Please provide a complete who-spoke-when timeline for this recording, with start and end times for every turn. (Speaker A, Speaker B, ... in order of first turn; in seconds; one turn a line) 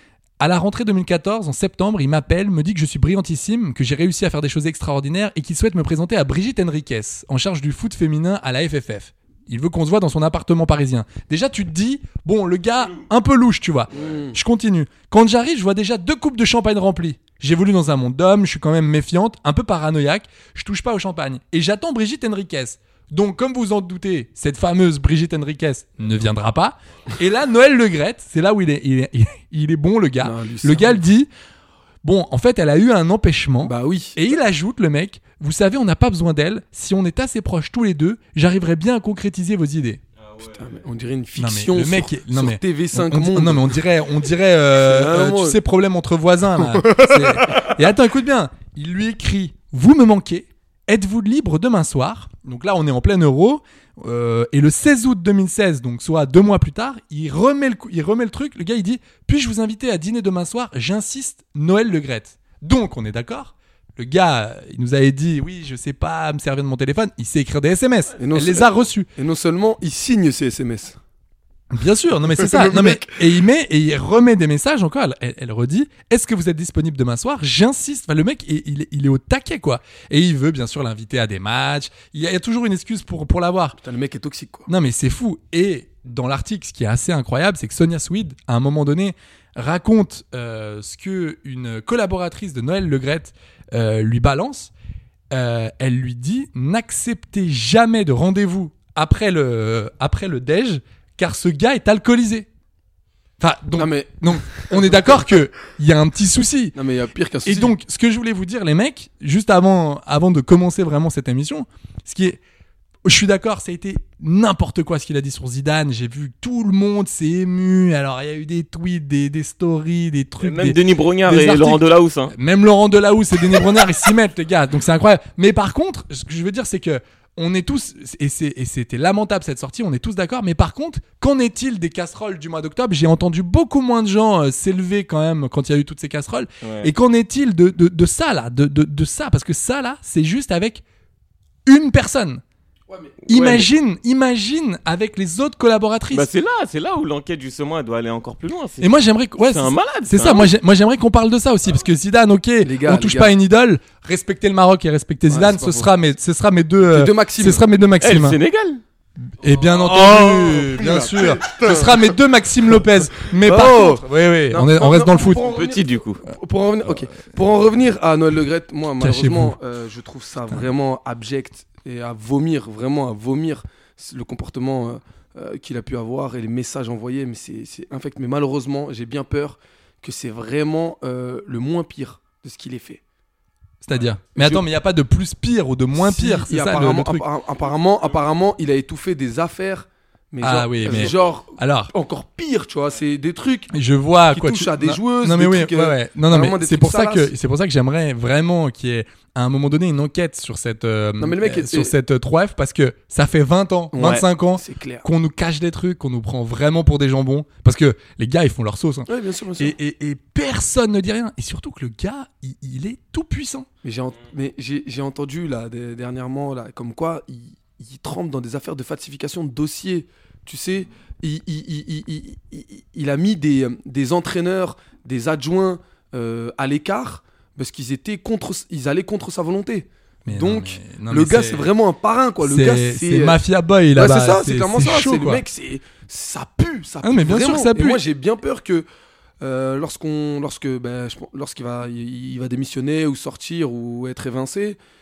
Speaker A: 0.4-31.3
Speaker B: 13.9-14.3
Speaker B: 30.2-31.0
Speaker A: 32.0-40.0
Speaker B: 33.6-34.2
Speaker B: 40.4-43.8
Speaker A: 41.4-69.1
Speaker B: 44.8-45.6
Speaker B: 46.6-47.7
Speaker B: 68.2-71.0
Speaker A: 71.7-83.8
Speaker B: 72.4-73.1
Speaker B: 83.8-84.7
Speaker A: 84.7-94.7
Speaker A: 95.3-102.5
Speaker A: 103.4-106.8
Speaker B: 103.8-105.2
Speaker B: 106.7-107.7
Speaker A: 107.4-112.4
Speaker A: 113.0-140.8
Speaker C: 120.4-122.3
Speaker C: 136.6-136.9
Speaker A: 141.7-142.4
Speaker B: 142.9-143.2
Speaker A: 143.3-146.3
Speaker C: 143.3-143.7
Speaker C: 146.1-150.5
Speaker A: 148.8-158.4
Speaker B: 152.6-153.3
Speaker B: 155.3-155.9
Speaker B: 156.8-157.7
Speaker C: 158.0-158.8
Speaker A: 159.4-165.5
Speaker B: 159.5-162.1
Speaker B: 163.2-183.0
Speaker C: 165.5-166.2
Speaker A: 169.0-169.6
Speaker A: 183.8-187.2
Speaker B: 184.3-184.7
Speaker B: 185.9-193.7
Speaker A: 190.4-191.9
Speaker A: 193.7-213.7
Speaker B: 194.3-197.3
Speaker B: 201.2-201.9
Speaker B: 203.9-205.1
Speaker B: 209.1-209.7
Speaker B: 213.8-233.4
Speaker A: 230.2-231.7
Speaker A: 232.4-235.4
Speaker B: 233.9-238.8
Speaker A: 237.0-238.0
Speaker B: 239.4-244.8